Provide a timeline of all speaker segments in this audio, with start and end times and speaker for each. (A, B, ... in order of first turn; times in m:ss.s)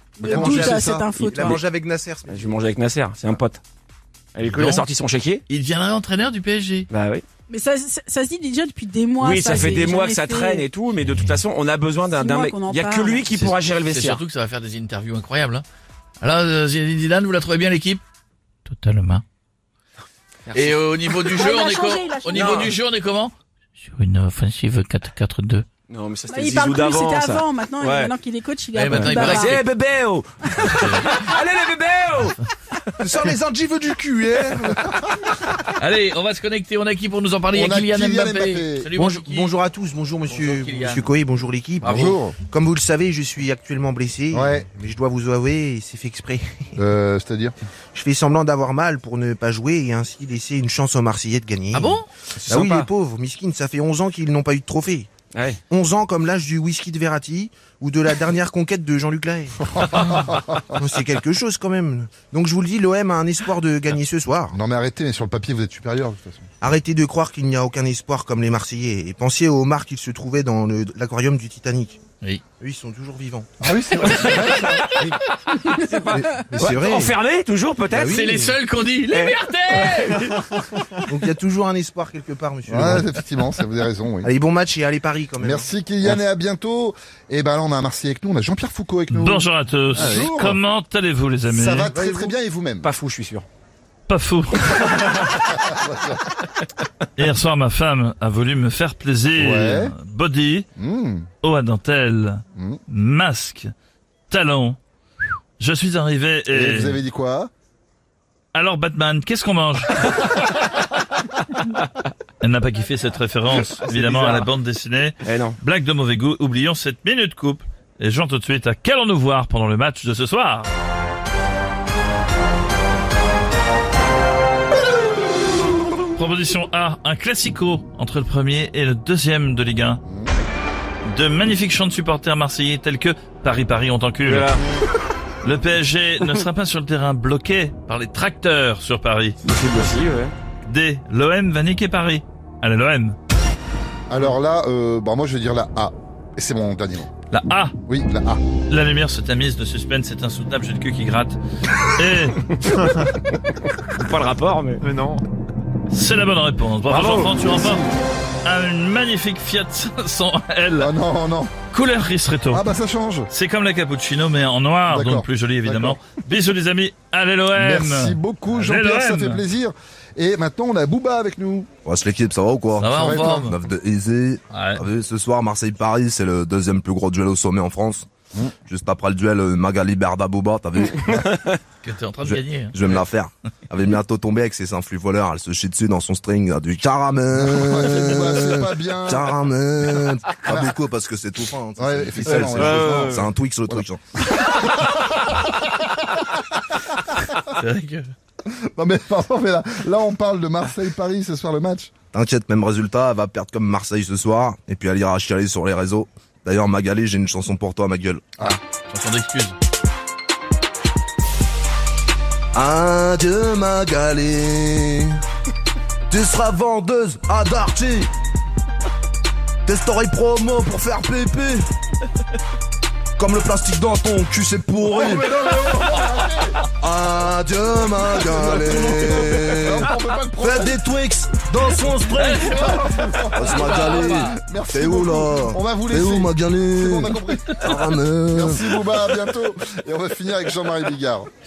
0:00.2-0:01.6 A
0:00.2-0:01.1 B
0:00.5-0:00.9 C
0:01.2-0:02.2 D
0:01.6-0:02.5 E
0:02.3-0:03.6 C
0:04.3-0:05.4 C
0:04.5-0:04.9 F
0:05.5-0:06.9 F
0:06.9-0:07.2 C
0:07.5-0:10.7 A
0:09.2-0:14.2 C
0:12.1-0:13.2 A
0:13.3-0:15.6 F
0:16.2-0:18.0 F
0:18.6-0:19.2 F
0:20.5-0:20.7 C
0:20.5-0:25.6 F
0:21.3-0:22.5 A
0:22.3-0:22.7 C
0:25.9-0:28.2 C
0:26.3-0:29.6 A
0:28.7-0:29.6 F
0:29.0-0:33.2 C
0:30.6-0:31.1 F
0:33.0-0:35.5 B
0:33.3-0:34.7 E
0:35.8-0:39.5 F
0:37.5-0:38.9 B
0:39.0-0:40.4 E
0:39.0-0:41.5 D
0:40.3-0:41.0 F
0:41.0-0:45.0 E
0:41.8-0:42.2 F
0:41.8-0:42.4 B
0:42.4-0:44.2 D
0:44.3-0:44.6 B
0:45.0-0:46.4 D
0:46.8-0:47.5 B
0:48.0-0:55.0 D
0:51.7-0:52.1 F
0:52.4-0:52.9 C
0:52.6-0:53.1 E
0:55.3-0:55.6 C
0:55.7-0:59.4 D
0:57.4-0:58.3 E
0:59.7-1:00.7 B
1:00.8-1:01.4 E
1:01.0-1:04.5 D
1:03.3-1:04.1 E
1:04.5-1:06.5 B
1:06.6-1:11.9 D
1:12.6-1:13.5 D
1:13.6-1:14.9 B
1:14.0-1:18.4 C
1:16.1-1:17.1 D
1:17.9-1:18.5 D
1:18.1-1:20.4 F
1:21.1-1:23.1 D
1:22.7-1:24.3 B
1:24.2-1:25.6 D
1:25.4-1:30.6 B
1:29.1-1:31.9 G
1:31.5-1:32.9 B
1:31.9-1:33.4 C
1:34.1-1:35.1 G
1:35.3-1:36.2 B
1:37.2-1:40.7 G
1:39.4-1:39.9 B
1:40.8-1:41.3 B
1:41.4-1:43.7 G
1:42.5-1:42.8 B
1:44.3-1:44.8 G
1:45.6-1:47.0 G
1:46.5-1:47.5 B
1:48.5-1:50.3 G
1:52.4-2:00.7 G
1:53.6-1:54.5 C
1:55.2-1:55.6 C
2:06.1-2:10.0 G
2:10.0-2:10.3 B
2:11.1-2:14.6 G
2:14.2-2:14.6 C
2:15.4-2:19.4 G
2:19.4-2:20.3 C
2:20.6-2:23.2 G
2:24.1-2:27.1 B
2:27.3-2:27.7 G
2:27.9-2:28.4 B
2:28.7-2:32.5 G
2:33.2-2:35.0 C
2:35.9-2:37.8 G
2:36.9-2:37.4 C
2:38.4-2:40.9 G
2:40.8-2:41.5 B
2:41.7-2:42.6 G
2:42.5-2:43.3 B
2:43.3-2:49.4 G
2:44.9-2:46.0 B
2:47.6-2:51.7 B
2:51.8-2:58.1 E
2:52.8-2:53.5 F
2:52.9-2:53.5 B
2:54.5-2:54.8 F
2:58.6-3:01.4 E
3:01.8-3:03.0 F
3:02.2-3:14.0 E
3:07.4-3:10.7 B
3:11.8-3:15.4 B
3:12.3-3:13.3 C
3:17.5-3:18.1 F
3:18.8-3:21.9 B
3:22.1-3:28.3 E
3:28.4-3:29.6 F
3:32.5-3:35.2 E
3:36.1-3:38.1 E
3:39.6-3:41.7 E
3:43.2-3:45.3 E
3:44.8-3:46.7 B
3:46.8-3:52.6 E
3:48.1-3:50.8 B
3:52.1-3:54.4 F
3:52.2-4:01.3 B
3:53.3-3:59.0 E